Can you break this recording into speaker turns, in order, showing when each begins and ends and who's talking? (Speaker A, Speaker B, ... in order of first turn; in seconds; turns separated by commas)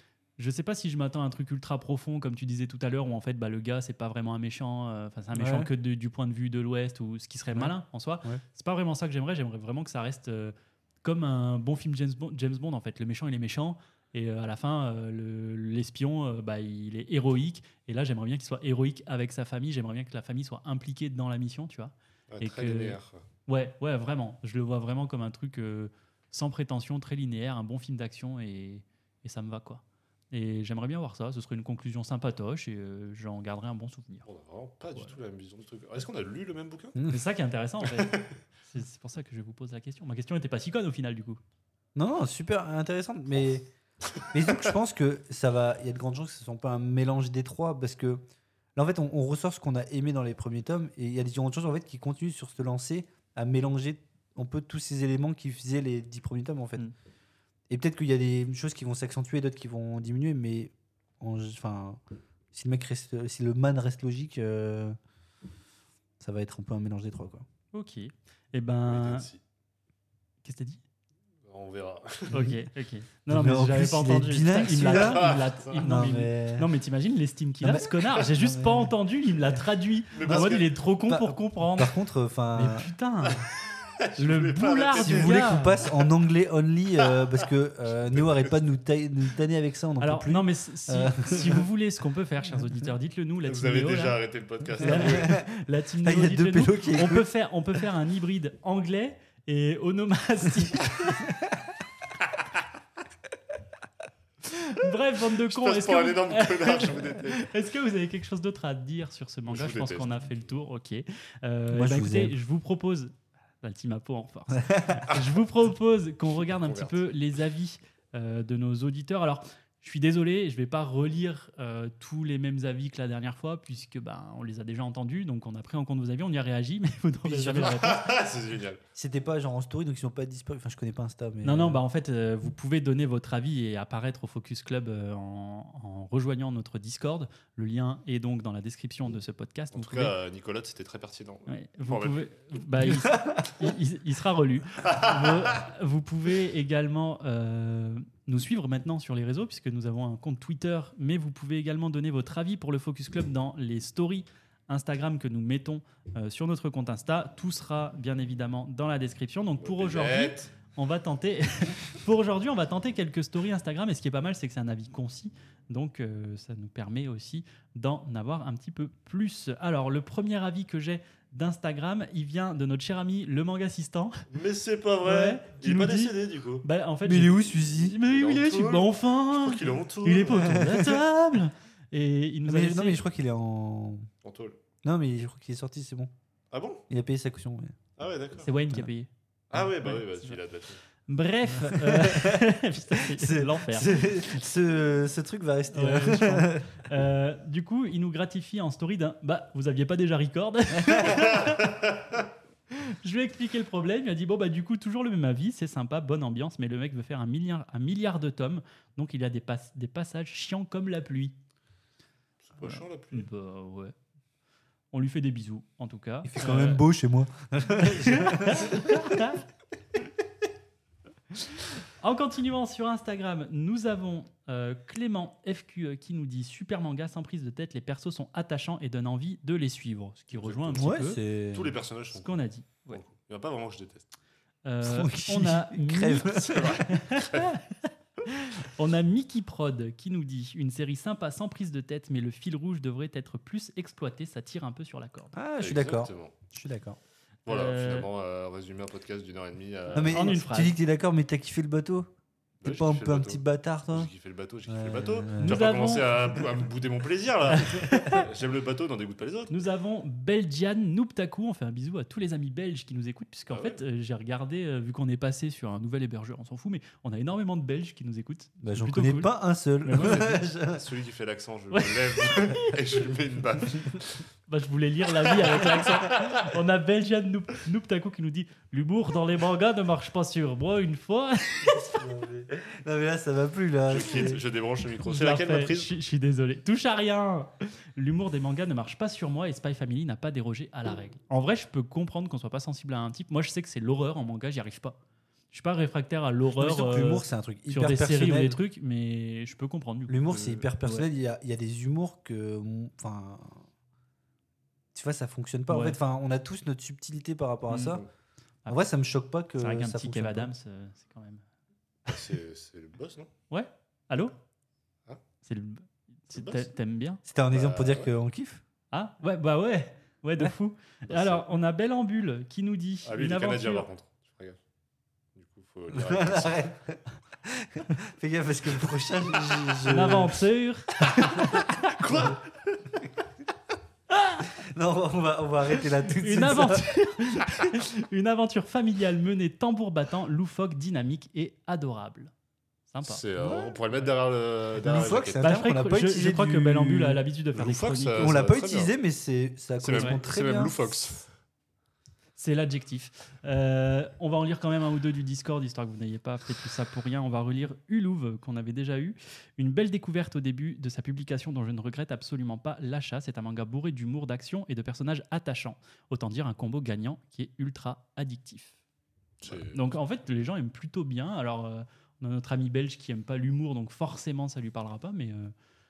Speaker A: 0.4-34.2, Speaker B: 5.3-5.7, Speaker B: 7.5-8.4, Speaker C: 22.3-23.2, Speaker C: 34.2-37.0, Speaker B: 36.9-37.2, Speaker A: 37.1-41.4, Speaker C: 38.0-38.3, Speaker B: 42.0-43.7, Speaker B: 44.3-48.2, Speaker B: 48.8-56.8, Speaker B: 57.7-62.0, Speaker B: 62.5-65.0, Speaker B: 66.2-67.5, Speaker A: 67.7-69.3, Speaker C: 68.8-69.4, Speaker A: 70.4-70.8, Speaker C: 71.5-72.3, Speaker B: 72.3-72.6, Speaker A: 72.3-81.9, Speaker B: 73.3-76.7, Speaker C: 74.7-75.7, Speaker B: 77.6-78.9, Speaker C: 80.1-80.7, Speaker B: 80.2-82.9, Speaker A: 82.5-83.5, Speaker C: 84.0-86.1, Speaker A: 84.2-85.8, Speaker B: 85.0-91.7, Speaker C: 88.0-88.5, Speaker A: 90.0-94.2, Speaker C: 93.4-95.4, Speaker A: 94.8-101.4, Speaker B: 94.8-95.5, Speaker B: 96.0-97.3, Speaker A: 104.4-128.1, Speaker C: 105.5-107.4, Speaker C: 109.5-110.3, Speaker B: 111.7-112.3, Speaker B: 114.6-115.0, Speaker C: 116.4-117.1, Speaker B: 127.2-127.7, Speaker C: 127.5-128.8, Speaker B: 128.9-131.8, Speaker A: 131.4-140.1, Speaker C: 139.7-143.0, Speaker A: 141.5-174.2, Speaker B: 143.0-143.5, Speaker C: 144.8-145.6, Speaker C: 159.6-160.5, Speaker C: 174.3-176.7, Speaker A: 175.0-183.0, Speaker B: 177.0-177.9, Speaker C: 178.0-180.6, Speaker B: 180.3-181.0, Speaker B: 182.4-184.1, Speaker C: 184.2-184.6, Speaker B: 184.8-186.1, Speaker C: 186.5-186.8, Speaker B: 186.9-187.8, Speaker C: 188.0-188.5, Speaker A: 188.4-189.1, Speaker C: 189.5-190.8, Speaker A: 189.8-190.4, Speaker A: 191.1-194.0, Speaker B: 191.5-196.8, Speaker A: 195.7-201.9, Speaker B: 200.8-201.1, Speaker A: 202.7-211.3, Speaker C: 212.4-213.3, Speaker A: 212.6-213.9, Speaker A: 214.9-216.8, Speaker B: 216.2-219.2, Speaker A: 217.8-219.4, Speaker A: 221.8-231.2, Speaker C: 230.3-232.4, Speaker B: 230.8-231.7, Speaker A: 232.1-233.0, Speaker C: 232.9-234.1, Speaker A: 234.7-245.4, Speaker B: 234.8-236.9, Speaker C: 236.4-237.6, Speaker B: 245.3-247.0, Speaker C: 245.6-246.4, Speaker C: 247.4-250.3, Speaker A: 247.5-248.1, Speaker B: 249.9-252.1, Speaker A: 250.0-250.8, Speaker C: 252.6-259.6, Speaker B: 252.6-254.1, Speaker B: 254.7-255.7, Speaker A: 255.4-256.2, Speaker A: 257.5-258.2, Speaker A: 259.5-269.3, Speaker C: 263.5-263.8, Speaker B: 268.6-270.8, Speaker A: 269.8-270.4, Speaker C: 270.7-274.2, Speaker A: 271.7-272.7, Speaker A: 274.5-281.9, Speaker C: 275.4-276.4, Speaker B: 281.6-284.4, Speaker C: 283.9-285.9, Speaker A: 285.1-295.0, Speaker A: 295.5-301.1, Speaker B: 296.5-298.6, Speaker B: 300.1-303.6, Speaker B: 304.9-308.0, Speaker A: 305.7-306.0, Speaker A: 307.7-308.0, Speaker B: 308.7-310.5, Speaker A: 309.6-311.4, Speaker C: 312.1-313.3, Speaker A: 313.5-314.4, Speaker A: 315.4-317.2, Speaker C: 316.3-316.7, Speaker B: 317.2-318.6, Speaker C: 317.5-318.1, Speaker A: 318.9-323.9, Speaker C: 321.1-321.4, Speaker C: 323.1-324.6, Speaker C: 325.4-326.7, Speaker B: 325.9-330.4, Speaker A: 329.8-331.8, Speaker B: 331.1-333.2, Speaker C: 332.0-332.4, Speaker A: 334.1-334.5, Speaker B: 334.6-337.0, Speaker A: 336.1-342.3, Speaker A: 342.9-343.2, Speaker C: 343.0-345.5, Speaker B: 343.4-343.8, Speaker B: 344.8-347.2, Speaker A: 345.4-348.3, Speaker C: 347.5-348.9, Speaker B: 348.2-350.9, Speaker C: 349.8-351.3, Speaker A: 352.4-368.8, Speaker C: 369.4-369.8, Speaker A: 369.5-375.5